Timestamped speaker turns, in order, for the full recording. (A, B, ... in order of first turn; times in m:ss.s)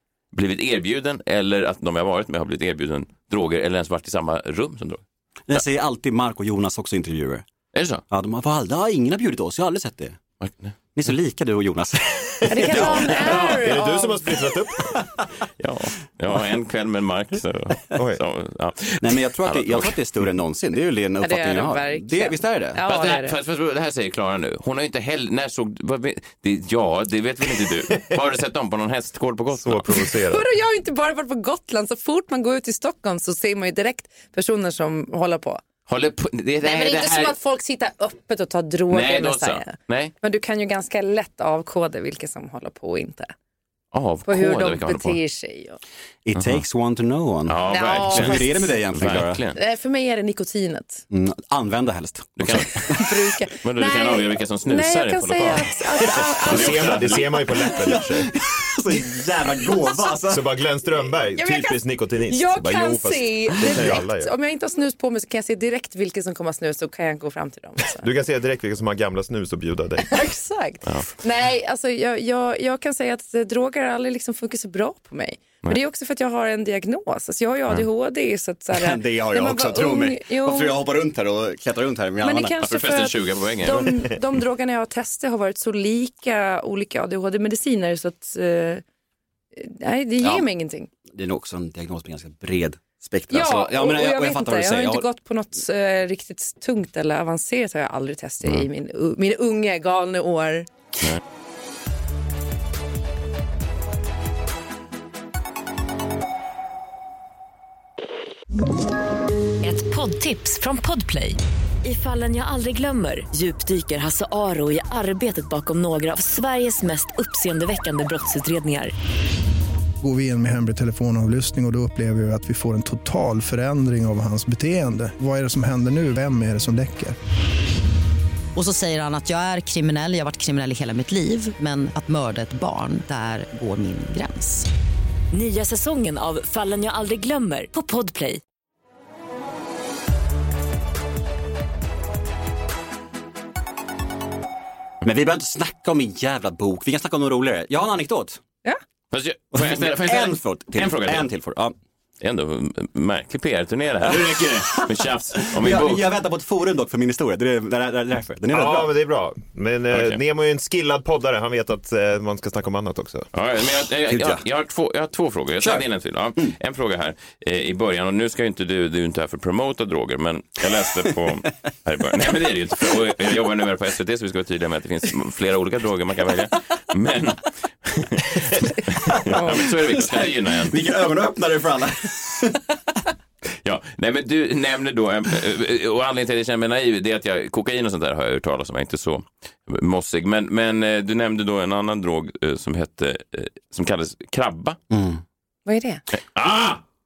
0:00.3-0:05.6 A
0:05.5-0:07.4 B
0:07.7-0:08.0 A
0:08.1-0:10.2 B
0:10.4-0:10.7 A
0:10.9-0:13.1 B
0:12.5-0:14.4 C
0:12.6-0:15.0 D
0:13.1-0:13.6 A
0:15.6-0:20.0 A
0:17.9-0:18.2 D
0:19.0-0:22.8 B
0:21.2-0:23.4 C
0:22.8-0:30.1 A
0:29.6-0:30.4 D
0:30.2-0:35.6 C
0:35.9-0:37.4 A
0:36.6-0:43.3 C
0:38.9-0:40.1 A
0:43.9-0:45.2 A
0:44.2-0:45.8 C
0:46.2-0:49.4 B
0:46.4-0:46.6 A
0:47.5-0:49.6 A
0:47.7-0:48.8 C
0:49.5-0:51.0 C
0:51.1-0:53.0 B
0:52.4-0:57.5 A
0:52.8-0:57.8 C
0:56.4-0:58.3 D
0:57.8-1:00.5 B
1:00.3-1:04.3 D
1:01.3-1:08.0 C
1:08.0-1:10.3 D
1:10.1-1:20.8 C
1:18.7-1:22.6 B
1:22.2-1:28.8 C
1:22.6-1:24.1 A
1:29.6-1:30.9 C
1:30.2-1:30.4 B
1:31.1-1:35.0 B
1:33.3-1:40.7 C
1:49.6-1:58.9 E
2:00.0-2:07.2 F
2:08.5-2:14.7 G
2:15.3-2:18.4 E
2:25.0-2:28.4 B
2:29.1-2:31.3 A
2:29.5-2:31.7 B
2:32.2-2:36.1 A
2:34.0-2:38.9 B
2:38.5-2:43.3 D
2:39.9-2:40.2 A
2:43.3-3:00.8 A
2:44.1-2:44.4 B
2:45.6-2:45.8 B
2:59.1-3:02.6 B
3:03.6-3:14.8 A
3:14.9-3:15.2 B
3:15.6-3:16.0 C
3:16.1-3:16.8 A